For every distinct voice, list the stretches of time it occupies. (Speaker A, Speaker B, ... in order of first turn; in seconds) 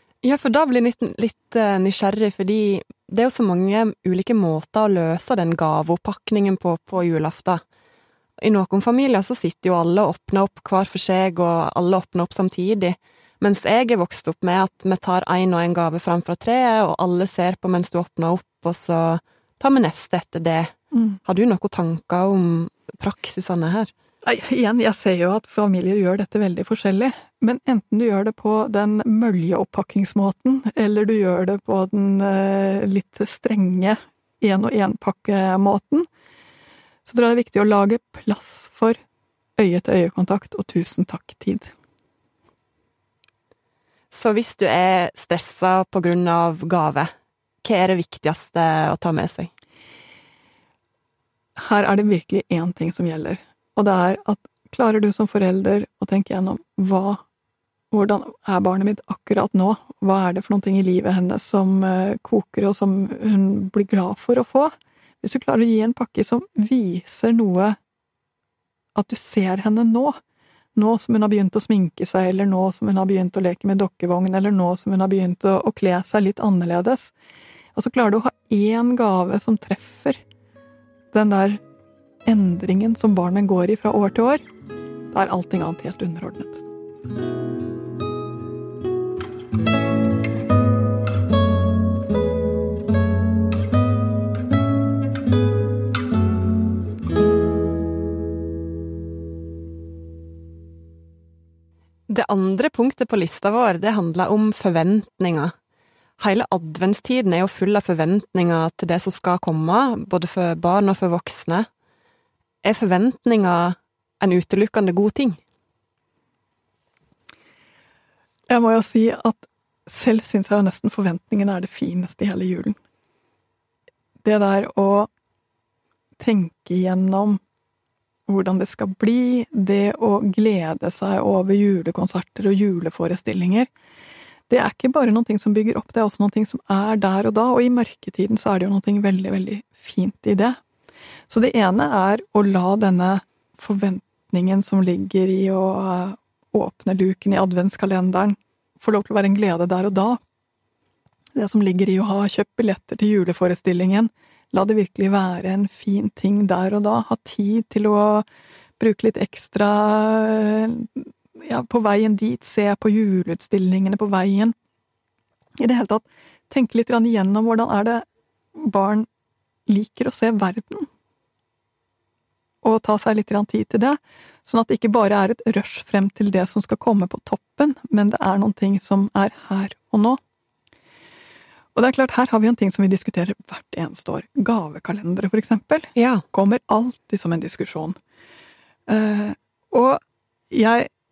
Speaker A: 0.2-7.6, 8.4-20.7, 21.2-23.9, 44.1-47.1, 47.6-49.5, 102.1-105.5, 106.2-111.7, 112.6-115.4, 186.0-186.2
Speaker B: 24.2-36.1, 37.1-39.0, 39.6-41.7, 51.6-57.2, 57.9-67.8, 69.0-70.2, 70.8-77.1, 77.8-80.2, 81.1-81.6, 82.2-84.4, 85.1-86.6, 118.5-122.8, 124.2-125.1, 126.2-127.4, 128.3-133.7, 134.5-140.6, 141.3-150.2, 151.4-158.2, 158.8-164.6, 165.6-169.1, 169.7-170.9, 172.6-180.2, 181.8-188.0, 188.9-190.9